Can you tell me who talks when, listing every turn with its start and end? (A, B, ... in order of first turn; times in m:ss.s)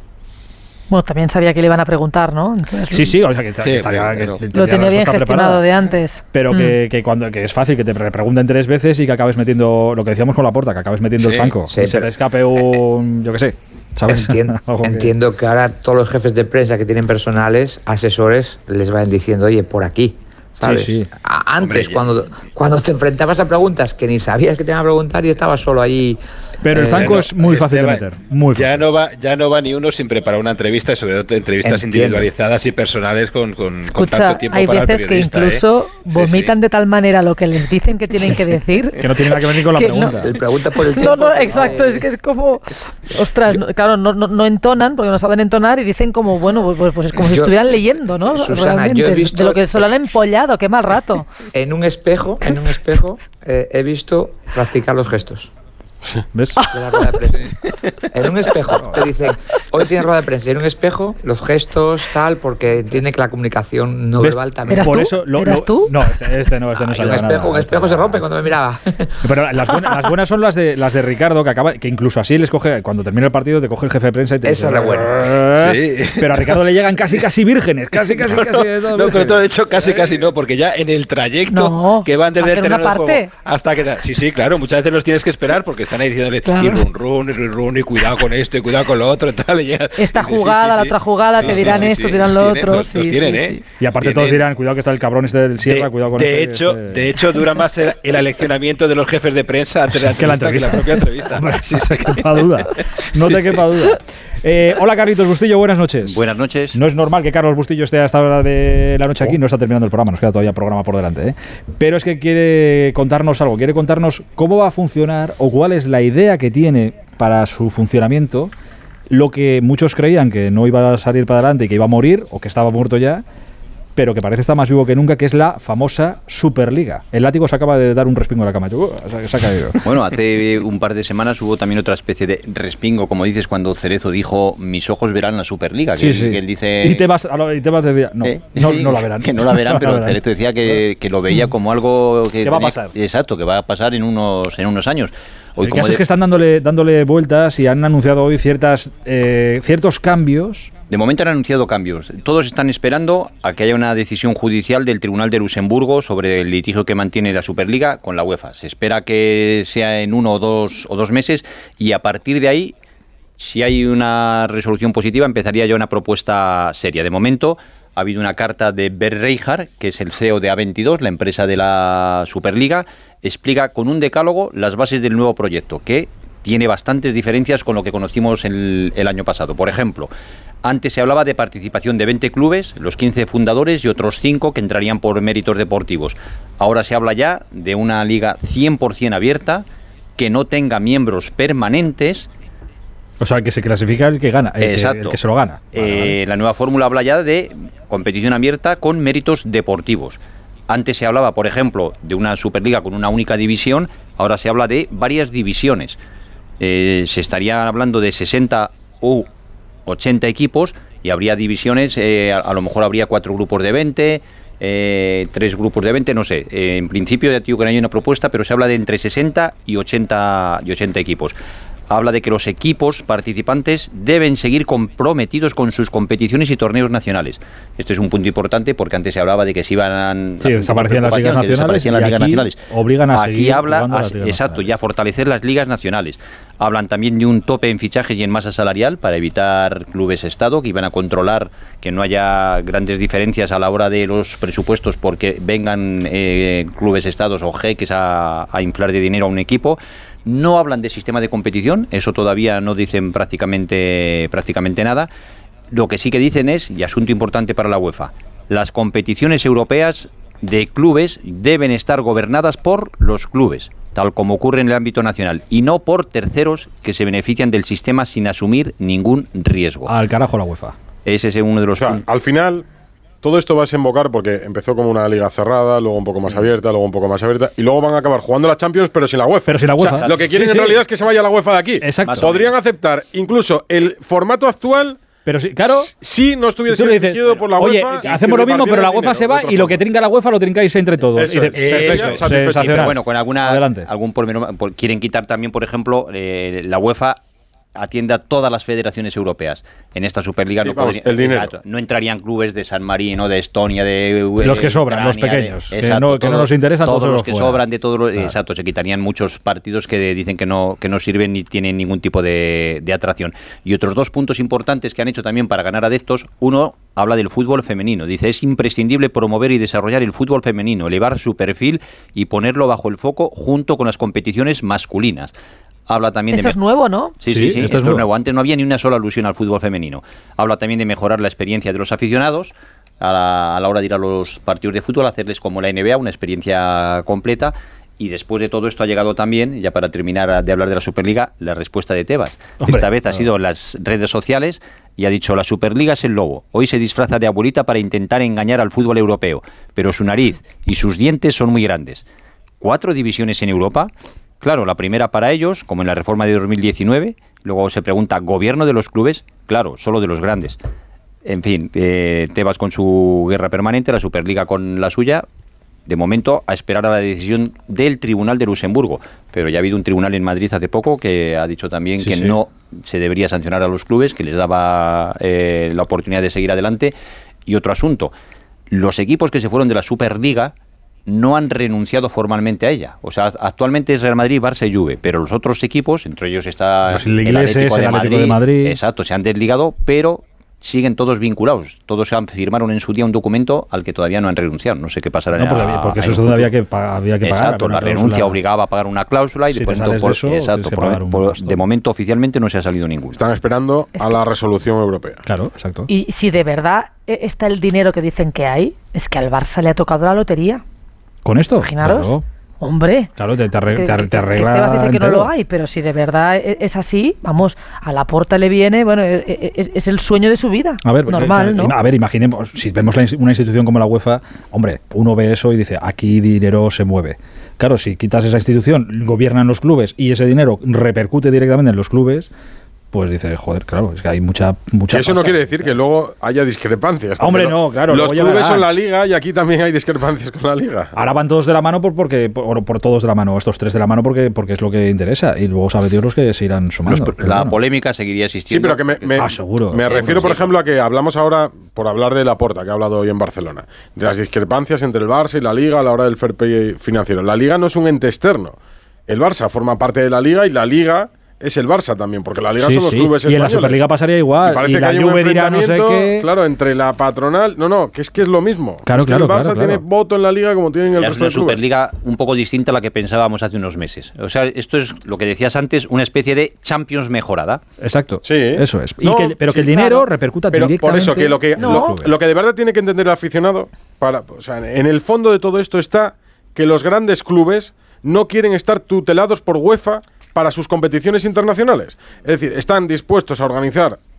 0:00.9-0:03.1 A
0:02.9-0:05.6 B
0:03.6-0:04.4 C
0:04.5-0:06.8 A
0:06.3-0:15.1 B
0:11.2-0:11.5 C
0:11.7-0:12.1 D
0:14.1-0:27.2 D
0:20.6-0:21.1 B
0:21.6-0:22.0 C
0:26.6-0:28.8 B
0:26.9-0:28.0 C
0:28.5-0:36.5 C
0:31.6-0:32.3 D
0:33.8-0:40.3 A
0:39.0-0:40.3 B
0:40.2-0:42.0 D
0:40.9-0:51.2 A
0:47.2-0:47.6 D
0:48.3-0:49.8 D
0:51.5-0:55.5 D
0:56.3-0:56.7 B
0:56.7-0:57.6 D
0:58.1-1:05.0 D
0:58.7-0:59.0 B
1:04.2-1:08.2 B
1:04.7-1:06.0 A
1:06.8-1:09.2 D
1:09.2-1:20.1 B
1:14.4-1:15.4 D
1:15.6-1:16.6 C
1:18.2-1:34.4 C
1:21.5-1:23.3 A
1:26.4-1:26.8 A
1:30.0-1:33.6 A
1:33.8-1:37.1 B
1:35.6-1:43.9 C
1:39.9-1:46.2 B
1:46.0-1:46.8 E
1:46.7-1:58.5 B
1:59.1-2:03.2 B
2:04.0-2:09.8 B
2:09.8-2:17.1 E
2:16.0-2:20.2 B
2:18.2-2:26.0 E
2:22.4-2:22.9 B
2:25.6-2:30.7 B
2:30.9-2:42.7 E
2:43.4-3:00.1 E
3:00.6-3:09.6 E
3:10.2-3:12.3 E
3:13.2-3:16.2 B
3:14.6-3:15.2 E
3:15.7-3:26.0 E
3:26.6-3:29.3 E
3:29.8-3:41.4 E
3:41.9-4:15.1 E
3:50.4-3:54.7 B
4:15.7-4:29.9 E
4:29.9-4:30.7 B
4:31.0-4:32.0 E
4:31.7-4:32.6 F
4:33.2-4:45.0 F
4:39.5-4:40.8 B
4:41.8-4:42.3 B
4:42.0-4:42.6 E
4:45.2-4:45.9 B
4:45.7-4:49.8 F
4:46.7-4:53.9 B
4:51.2-4:53.0 F
4:51.6-4:52.1 C
4:51.7-4:57.2 E
4:57.7-5:25.3 E
5:00.6-5:01.5 F
5:04.4-5:07.6 B
5:25.9-5:26.6 E
5:26.3-5:27.1 A
5:27.2-5:52.0 E
5:27.3-5:28.1 B
5:42.6-5:43.2 B
5:52.6-6:00.6 E
6:01.2-6:05.2 E
6:05.9-6:16.9 E
6:12.0-6:12.4 B
6:17.4-6:18.1 E
6:18.7-6:20.5 E
6:21.1-6:36.5 E
6:26.9-6:28.8 B
6:35.3-6:38.4 B
6:37.2-6:43.2 E
6:39.5-6:41.6 B
6:43.1-6:45.2 F
6:45.2-6:45.9 B
6:45.9-6:50.6 A
6:51.2-6:52.2 B
6:51.6-6:53.1 A
6:53.2-6:55.3 B
6:53.7-7:01.7 A
7:00.8-7:12.3 B
7:12.9-7:15.7 B
7:14.9-7:20.9 F
7:17.2-7:18.7 B
7:20.9-7:27.6 B
7:26.8-7:30.6 E
7:28.5-7:43.8 F
7:29.2-7:30.3 B
7:42.6-7:46.3 B
7:44.4-7:51.6 F
7:48.8-7:49.8 B
7:51.0-7:57.6 E
7:57.8-8:02.1 B
7:58.2-7:59.7 F
7:59.7-8:00.0 A
8:00.5-8:14.0 F
8:01.6-8:01.9 A